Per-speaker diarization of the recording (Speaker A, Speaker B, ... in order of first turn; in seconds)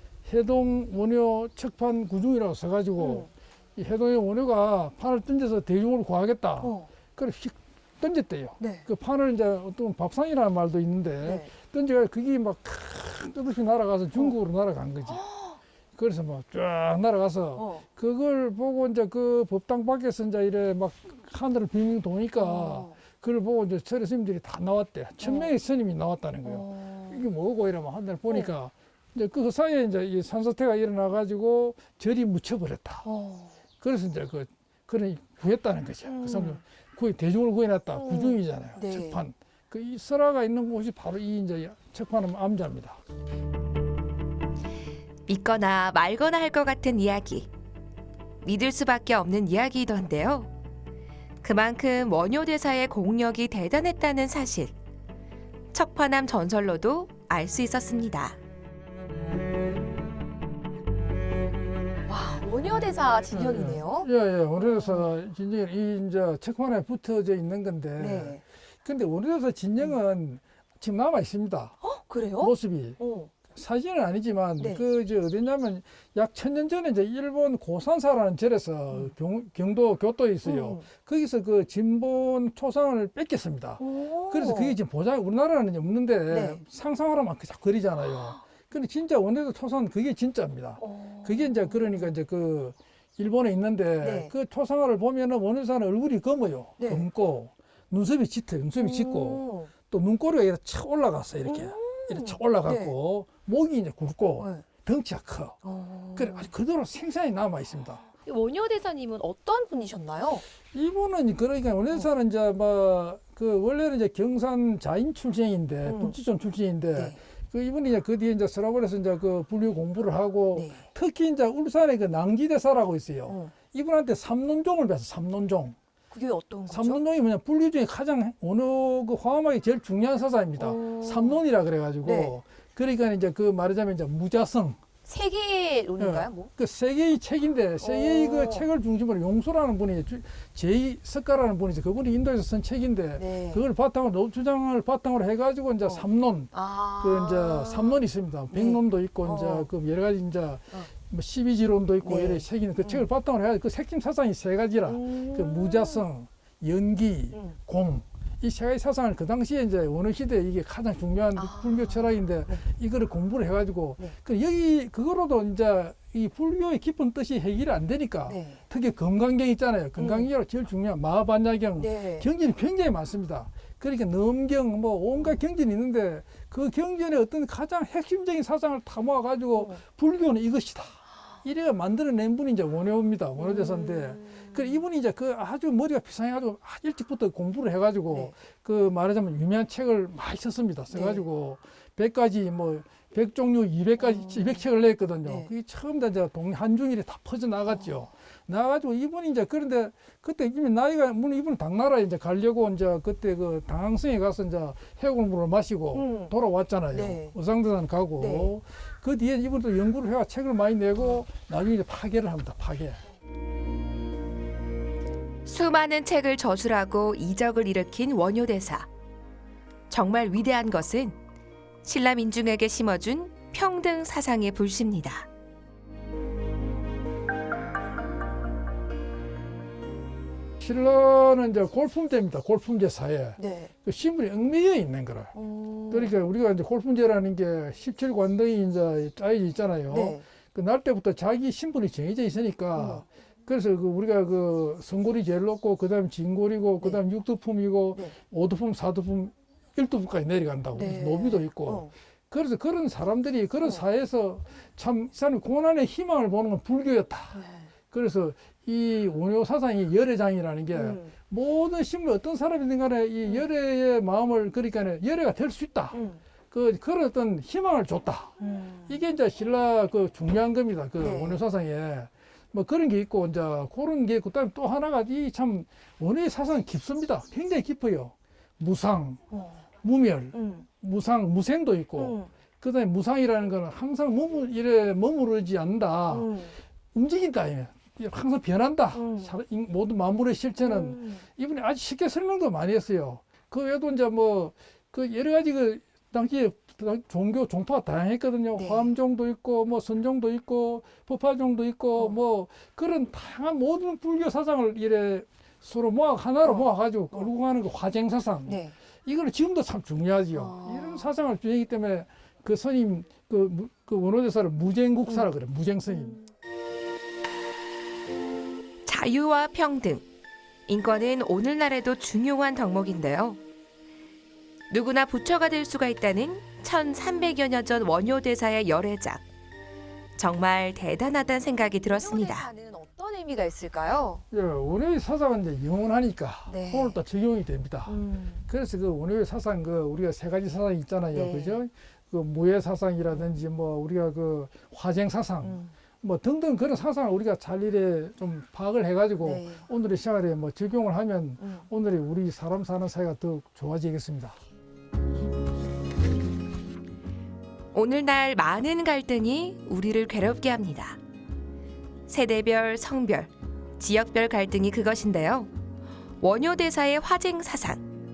Speaker A: 0.3-15.2, 16.0-33.1, 33.8-43.0, 63.3-71.8, 72.4-73.0, 73.5-105.6, 106.2-108.0, 110.7-125.8, 126.7-134.8, 136.0-213.0, 230.6-235.3, 235.9-257.4, 257.9-268.4, 268.9-279.2, 279.8-286.4, 286.9-316.2, 334.3-354.4
Speaker B: 3.0-3.3, 6.6-6.9, 8.6-8.9, 11.2-11.5, 15.1-15.6, 17.6-17.9, 22.4-23.0, 25.2-25.5, 26.4-27.2, 33.0-33.5, 36.1-36.6, 37.9-39.2, 62.1-65.1, 68.0-68.4, 71.8-73.3, 74.6-74.8, 80.4-80.8, 83.8-84.8, 86.3-86.6, 90.8-92.1, 94.0-94.3, 96.8-97.1, 98.8-99.7, 101.5-102.9, 104.4-104.7, 105.6-106.5, 108.0-110.4, 115.8-116.2, 116.9-117.2, 120.5-120.9, 123.3-123.5, 126.1-127.0, 130.6-131.4, 132.0-132.3, 135.1-136.5, 137.8-138.7, 143.2-143.7, 145.8-149.7, 152.0-153.1, 154.9-156.0, 161.4-162.6, 168.3-168.6, 170.0-170.3, 171.8-172.3, 183.4-184.5, 190.9-191.2, 194.0-194.7, 195.2-195.5, 197.7-198.1, 205.9-206.3, 206.9-207.3, 208.2-208.5, 233.4-233.7, 235.3-236.1, 239.9-240.2, 242.8-243.0, 250.8-251.9, 257.3-257.7, 260.7-261.1, 265.9-266.2, 268.4-269.0, 271.0-271.4, 279.3-279.6, 280.3-280.7, 282.0-282.3, 286.1-286.6, 288.9-289.3, 290.6-291.2, 298.5-298.9, 308.5-308.8, 310.3-311.1, 331.9-334.2, 336.5-337.0, 337.9-338.4, 341.1-341.6, 345.4-345.7, 349.2-349.7, 351.4-351.7
Speaker C: 45.3-47.5, 48.4-50.5, 51.4-54.7, 55.7-58.4, 215.4-218.9, 219.9-221.2, 221.8-225.3, 318.9-320.1, 320.7-323.4, 324.7-329.2, 330.2-332.5, 357.7-361.0, 362.1-365.5, 366.2-367.9